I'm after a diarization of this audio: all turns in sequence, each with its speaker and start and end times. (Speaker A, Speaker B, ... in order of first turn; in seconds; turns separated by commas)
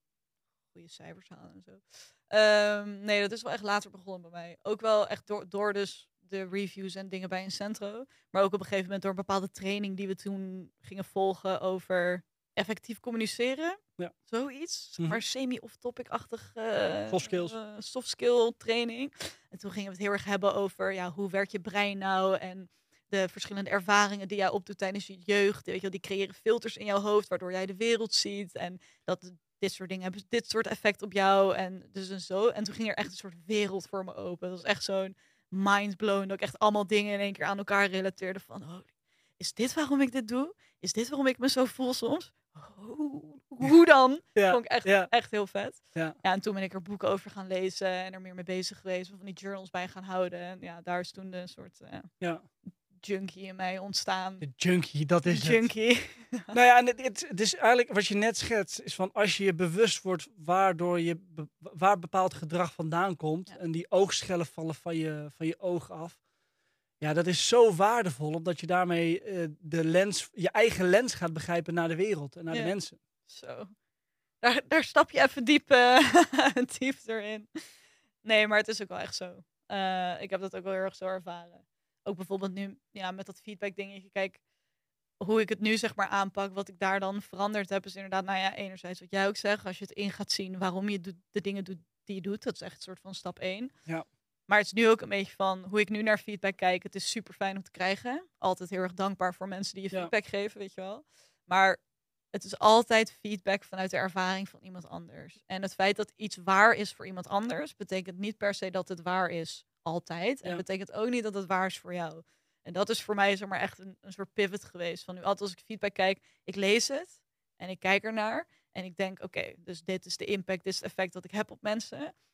Speaker A: 0.7-52.1, Speaker B: 17.1-17.6, Speaker B: 44.3-45.1, Speaker B: 52.2-52.4, Speaker A: 53.0-54.4, Speaker B: 54.4-55.6, Speaker A: 55.3-56.5, Speaker B: 56.5-66.2, Speaker B: 67.0-73.0, Speaker A: 73.3-73.7, Speaker A: 74.4-84.4, Speaker A: 85.2-93.7, Speaker A: 94.5-101.8, Speaker A: 102.3-122.1